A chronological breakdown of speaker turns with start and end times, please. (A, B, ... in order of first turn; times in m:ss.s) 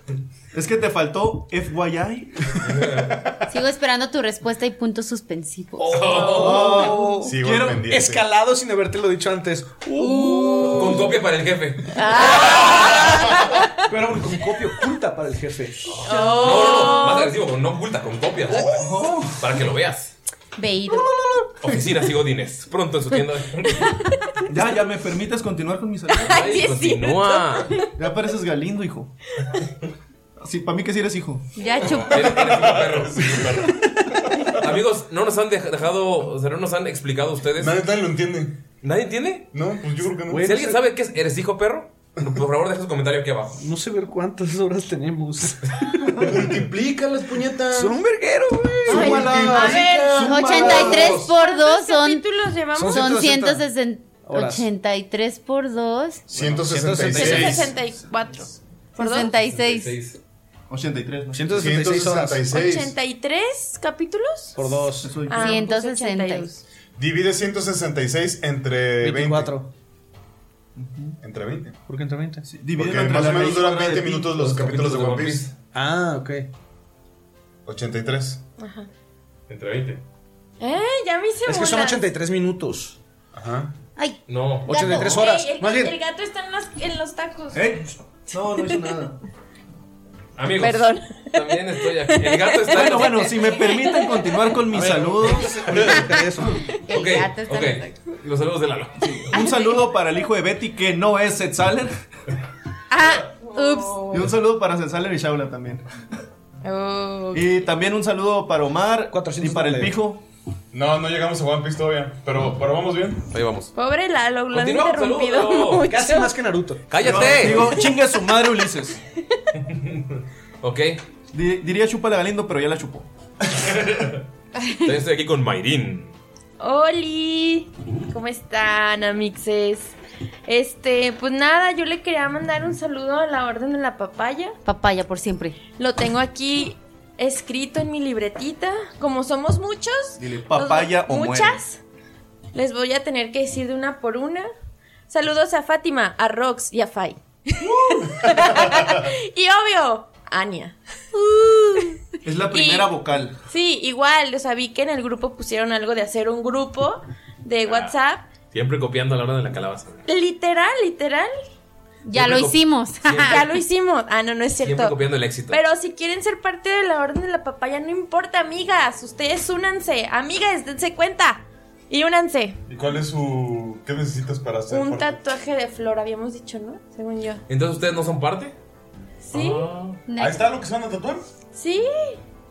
0:00.5-0:02.8 A
0:02.7-0:03.1 B
0:03.5-0:06.2 C
0:05.8-0:11.2 D
0:05.9-0:06.9 B
0:05.9-0:07.2 E
0:07.2-0:08.2 F
0:10.2-0:10.6 E
0:10.3-0:10.6 C
0:10.6-0:13.0 B
0:12.0-0:12.9 C
0:12.1-0:12.8 D
0:12.2-0:13.3 E
0:13.9-0:16.0 D
0:15.9-0:20.1 B
0:16.0-0:17.3 E
0:16.1-0:16.8 C
0:18.5-0:19.0 D
0:18.6-0:19.4 A
0:20.6-0:21.0 C
0:21.6-0:24.0 B
0:24.5-0:26.5 A
0:26.1-0:27.9 E
0:26.2-0:27.7 B
0:28.0-0:29.1 A
0:30.4-0:31.5 A
0:31.6-0:32.2 C
0:31.8-0:33.6 B
0:31.9-0:34.6 F
0:34.6-0:37.8 B
0:37.6-0:38.6 F
0:38.8-0:39.5 B
0:39.5-0:40.6 F
0:40.3-0:40.8 D
0:40.4-0:43.6 B
0:43.6-0:46.4 D
0:46.2-0:48.0 F
0:47.7-0:49.5 D
0:48.8-0:50.2 F
0:48.9-0:53.1 E
0:48.9-0:51.3 A
0:50.2-0:52.2 C
0:52.8-0:53.6 D
0:52.8-0:56.2 C
0:54.2-0:54.7 D
0:56.3-0:57.7 F
0:56.6-0:57.7 D
0:57.1-0:59.3 E
0:59.0-0:59.9 C
0:59.4-1:00.2 B
1:00.7-1:01.8 A
1:01.3-1:02.5 D
1:01.5-1:02.9 F
1:02.5-1:04.6 E
1:04.6-1:05.2 D
1:05.0-1:05.6 A
1:05.2-1:06.6 E
1:05.3-1:06.5 C
1:07.0-1:09.5 F
1:09.0-1:09.7 D
1:10.8-1:11.2 A
1:11.2-1:11.8 F
1:11.9-1:12.5 D
1:12.5-1:14.5 A
1:12.7-1:15.5 F
1:14.4-1:15.5 B
1:15.7-1:16.5 D
1:17.6-1:18.4 F
1:18.6-1:18.9 E
1:19.5-1:20.0 B
1:20.6-1:22.0 E
1:21.4-1:23.0 D
1:23.3-1:23.7 F
1:24.3-1:25.3 B
1:24.7-1:25.9 D
1:24.7-1:27.7 E
1:27.5-1:29.2 A
1:30.4-1:33.3 B
1:30.6-1:34.6 E
1:32.7-1:35.5 A
1:34.7-1:36.6 D
1:35.6-1:36.2 B
1:36.9-1:37.8 C
1:36.9-1:39.3 B
1:39.2-1:41.9 A
1:39.4-1:39.7 C
1:42.9-1:44.0 C
1:43.4-1:44.2 E
1:44.1-1:45.8 A
1:46.6-1:47.7 E
1:47.3-1:50.2 A
1:49.1-1:50.0 D
1:50.7-1:53.3 F
1:53.3-1:53.7 B
1:53.7-1:56.3 E
1:54.5-1:56.2 B
1:55.9-1:58.6 D
1:56.9-1:57.8 B
1:57.0-1:59.0 A
1:59.6-2:01.0 B
2:01.3-2:03.1 A
2:03.7-2:04.2 B
2:04.8-2:06.1 B
2:06.6-2:09.9 E
2:10.5-2:14.6 E
2:14.6-2:15.6 C
2:15.8-2:21.8 E
2:20.2-2:21.6 A
2:22.5-2:24.5 E
2:25.1-2:33.0 E
2:32.2-2:33.4 A
2:33.5-2:38.3 E
2:37.6-2:37.9 B
2:38.5-2:40.0 B
2:40.1-2:41.3 E
2:42.0-2:43.4 C
2:42.1-2:43.5 B
2:43.2-2:45.0 E
2:44.6-2:45.6 B
2:45.5-2:52.6 E
2:52.7-2:55.2 F
2:54.7-2:57.4 E
2:57.5-2:58.5 B
2:59.3-2:59.7 E
2:59.3-3:00.0 B
3:00.1-3:00.5 C
3:00.2-3:01.3 F
3:01.5-3:02.2 E